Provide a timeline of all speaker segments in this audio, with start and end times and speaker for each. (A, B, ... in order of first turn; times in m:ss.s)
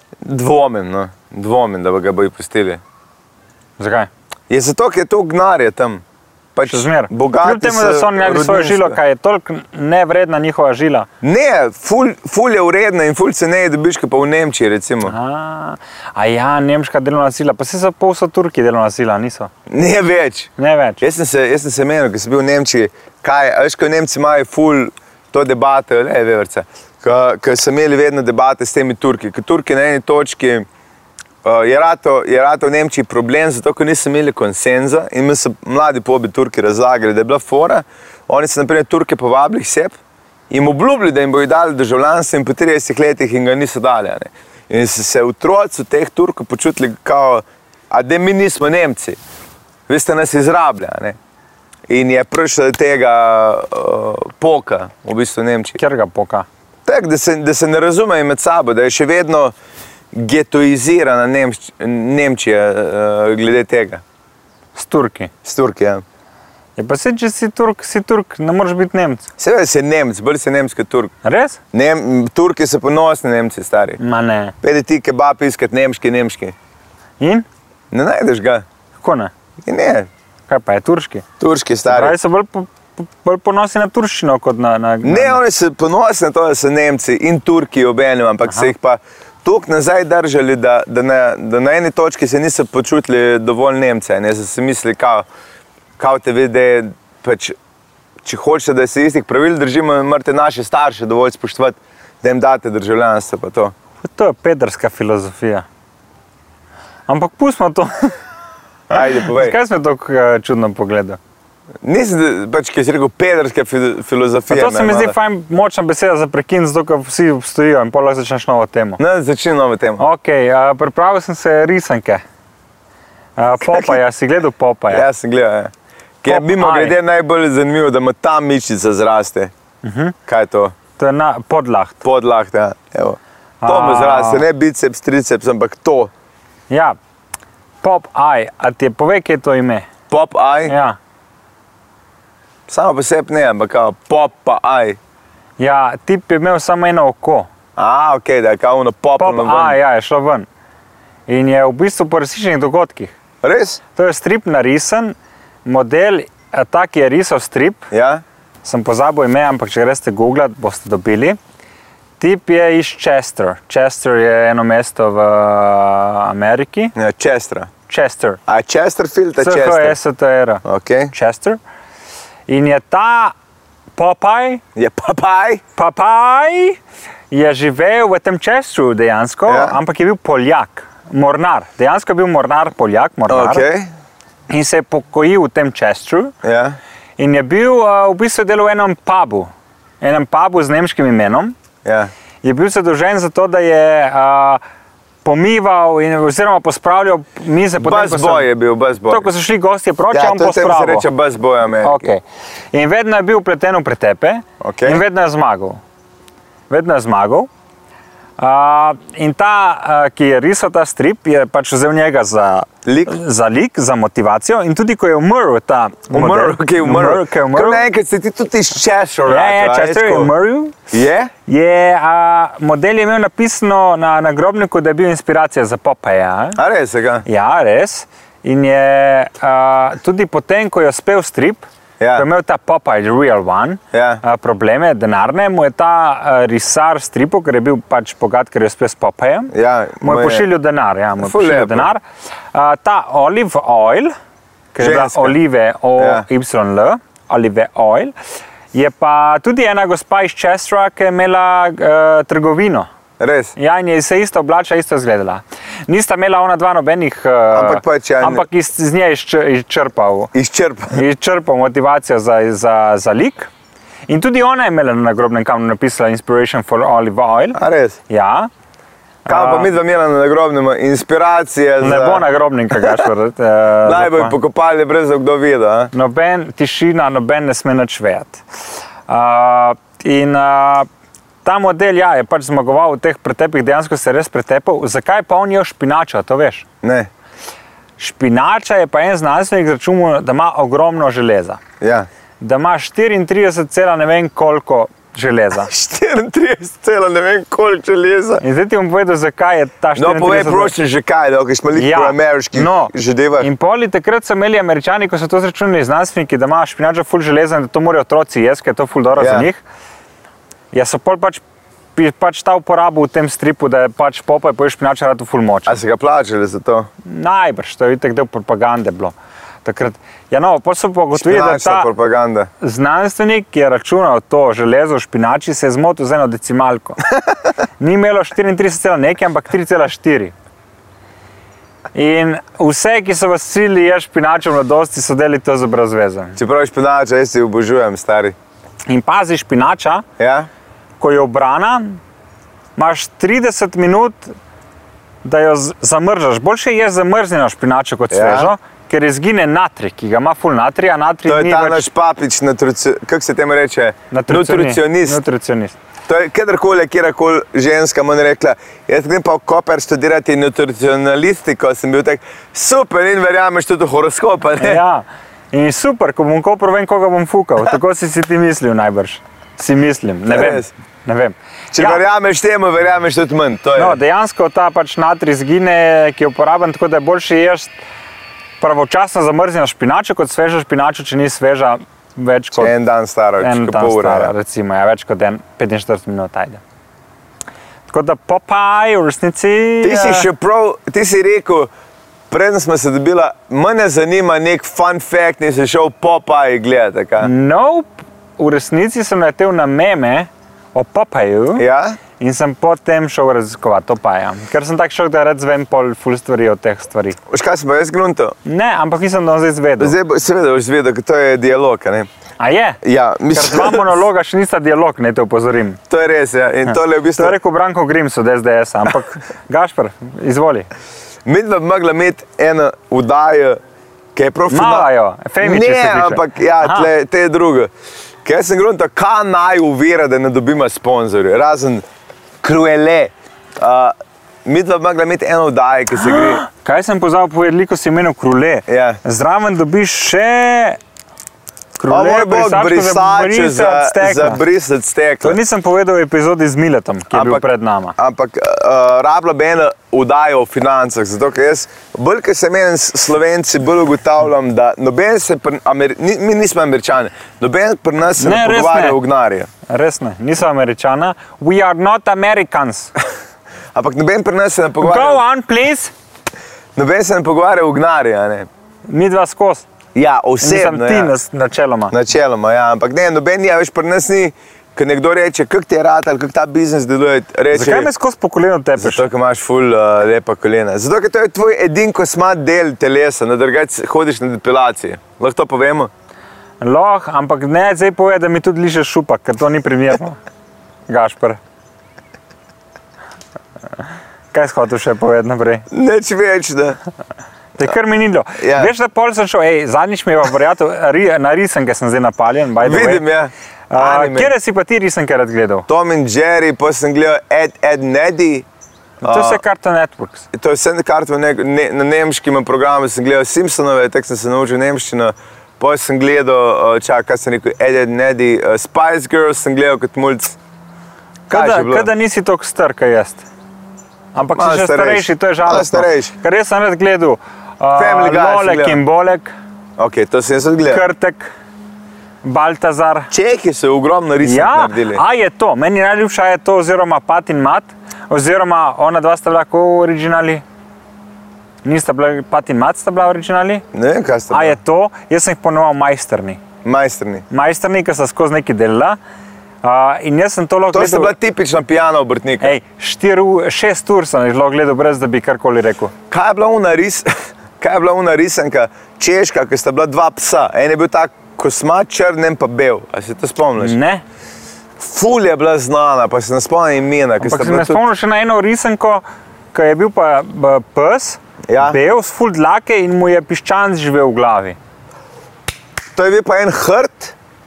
0:00.2-0:02.8 A
0:03.8-0:04.1 B
0:04.5-0:06.0 A
0:06.6-0:09.0 A
0:06.7-0:11.1 B
0:11.2-0:15.2 A
0:15.0-0:19.5 B
0:19.7-0:30.7 A
0:20.6-0:21.0 B
0:31.4-0:40.0 A
0:40.5-0:49.2 A
0:49.9-0:51.2 A
0:51.9-0:55.8 A
0:55.8-0:56.5 B
0:56.9-0:59.5 A
1:00.1-1:04.0 A
1:04.8-1:05.3 B
1:05.4-1:06.0 A
1:06.8-1:09.3 B
1:09.4-1:11.1 A
1:11.2-1:11.6 B
1:11.7-1:14.0 A
1:14.0-1:14.5 B
1:14.6-1:16.6 A
1:17.2-1:17.5 B
1:17.9-1:18.6 A
1:19.0-1:19.3 B
1:19.6-1:20.1 A
1:20.5-1:21.2 B
1:21.4-1:22.2 A
1:21.9-1:25.4 B
1:25.0-1:35.3 A
1:36.0-1:37.6 A
1:38.2-1:43.7 A
1:44.0-1:45.7 B
1:47.1-1:48.2 B
1:48.9-1:49.6 A
1:49.2-1:51.2 B
1:51.8-1:55.2 A
1:54.5-1:59.0 B
1:59.0-2:00.0 A
2:00.0-2:02.2 B
2:03.4-2:05.1 B
2:03.6-2:04.0 A
2:04.9-2:09.5 A
2:06.3-2:07.0 B
2:09.8-2:10.2 B
2:10.3-2:10.8 A
2:11.0-2:12.0 B
2:12.0-2:16.1 A
2:13.6-2:14.4 B
2:16.7-2:17.0 B
2:17.8-2:19.9 B
2:20.1-2:20.7 A
2:20.7-2:21.0 B
2:22.7-2:25.0 A
2:25.6-2:27.5 B
2:27.8-2:29.8 A
2:29.2-2:30.5 B
2:31.3-2:33.2 B
2:33.4-2:33.8 A
2:34.0-2:37.9 B
2:37.9-2:38.2 A
2:38.6-2:41.4 B
2:42.2-2:47.0 B
2:47.0-2:47.7 A
2:47.9-2:48.4 B
2:48.5-2:50.0 A
2:49.4-2:51.6 B
2:50.6-2:51.1 A
2:52.5-2:53.4 B
2:54.0-2:54.6 B
2:54.8-2:55.6 A
2:55.8-2:56.8 B
2:57.3-3:03.6 B
2:59.5-2:59.8 A
3:03.3-3:03.9 A
3:04.5-3:06.4 B
3:06.4-3:06.8 A
3:07.2-3:11.6 B
3:11.8-3:12.1 A
3:12.4-3:14.6 B
3:15.2-3:18.5 B
3:17.8-3:19.3 A
3:19.1-3:21.1 B
3:20.1-3:22.1 A
3:21.8-3:25.8 B
3:24.6-3:25.0 A
3:26.7-3:27.5 B
3:28.4-3:37.8 B
3:32.8-3:33.2 A
3:36.1-3:40.3 A
3:39.3-3:40.8 B
3:40.9-3:41.3 A
3:41.5-3:46.6 B
3:46.6-3:47.2 A
3:47.2-4:04.1 B
3:52.0-3:52.3 A
3:53.9-3:54.2 A
3:59.5-4:00.5 A
4:01.2-4:01.9 A
4:04.7-4:08.1 B
4:04.8-4:05.4 A
4:06.0-4:06.2 A
4:08.7-4:12.9 B
4:13.2-4:13.5 A
4:13.6-4:20.3 B
4:17.5-4:18.4 A
4:20.3-4:21.0 A
4:20.9-4:23.5 B
4:24.1-4:28.5 B
4:27.6-4:28.0 A
4:29.2-4:29.7 B
4:29.3-4:33.1 A
4:31.8-4:34.4 B
4:33.8-4:35.9 A
4:35.9-4:38.4 B
4:39.1-4:40.9 B
4:41.4-4:46.7 B
4:46.8-4:47.1 A
4:48.0-4:51.6 B
4:51.8-4:52.1 A
4:52.4-4:55.7 B
4:55.7-4:58.4 A
4:58.4-5:00.7 B
5:00.0-5:03.5 A
5:01.8-5:09.6 B
5:09.2-5:09.5 A
5:10.7-5:11.4 B
5:12.0-5:15.8 B
5:15.7-5:16.9 A
5:17.0-5:21.9 B
5:21.1-5:22.5 A
5:22.6-5:27.0 B
5:27.8-5:30.3 B
5:31.9-5:36.4 B
5:36.4-5:38.4 A
5:38.9-5:40.0 B
5:40.2-5:40.5 A
5:41.0-5:42.0 B
5:42.8-5:44.4 B
5:45.2-5:51.9 B
5:48.1-5:48.5 A
5:51.3-5:55.2 A
5:54.1-5:55.8 B
5:56.1-6:04.8 A
6:04.6-6:12.0 B
6:10.3-6:10.7 A
6:11.7-6:14.0 A
6:13.8-6:17.7 B
6:18.6-6:22.7 B
6:22.6-6:24.3 A
6:23.4-6:26.6 B
6:27.9-6:30.3 B
6:29.8-6:31.7 A
6:32.3-6:37.3 A
6:37.2-6:41.6 B
6:41.6-6:42.0 A
6:42.2-6:47.2 B
6:47.3-6:48.4 A
6:48.4-6:50.0 B
6:49.8-6:52.1 A
6:52.4-6:55.8 B
6:52.8-6:54.0 A
6:55.9-6:57.4 A
6:56.7-7:00.7 B
7:01.3-7:03.6 A
7:04.2-7:04.9 A
7:04.5-7:06.9 B
7:05.4-7:07.7 A
7:08.2-7:11.8 A
7:12.4-7:13.9 A
7:14.4-7:16.4 A
7:16.0-7:20.8 B
7:18.7-7:19.0 A
7:21.8-7:24.4 B
7:21.9-7:25.4 A
7:25.2-7:28.0 B
7:27.1-7:27.4 A
7:28.0-7:39.5 A
7:38.2-7:39.0 B
7:39.7-7:42.9 B
7:43.8-7:45.2 A
7:44.8-7:45.9 B
7:46.8-7:48.5 A
7:48.9-7:49.7 B
7:50.0-7:51.1 A
7:50.4-7:52.0 B
7:51.9-7:57.9 A
7:57.5-7:59.0 B
7:58.8-8:05.9 A
8:06.6-8:10.2 B
8:10.9-8:11.4 B
8:14.3-8:15.7 B
8:15.7-8:16.8 A
8:17.6-8:23.1 B
8:18.4-8:18.7 A
8:22.6-8:24.3 A
8:23.7-8:25.7 B
8:25.7-8:28.5 A
8:29.0-8:29.4 A
8:29.0-8:30.3 B
8:30.3-8:40.4 A
8:41.3-8:41.9 A
8:41.3-8:43.2 B
8:44.2-8:49.3 B
8:44.3-8:46.1 A
8:47.8-8:48.8 A
8:49.8-8:50.8 A
8:50.7-8:51.3 B
8:52.2-8:53.1 B
8:53.1-8:55.0 A
8:54.2-9:00.4 B
9:01.6-9:03.6 B
9:03.7-9:04.6 A
9:04.3-9:06.4 B
9:06.6-9:07.3 A
9:07.3-9:09.0 B
9:09.6-9:11.1 B
9:10.7-9:12.6 A
9:12.4-9:15.9 B
9:16.1-9:23.8 A
9:23.6-9:24.0 B
9:24.8-9:27.8 A
9:27.2-9:34.6 B
9:31.5-9:31.8 A
9:36.0-9:37.2 A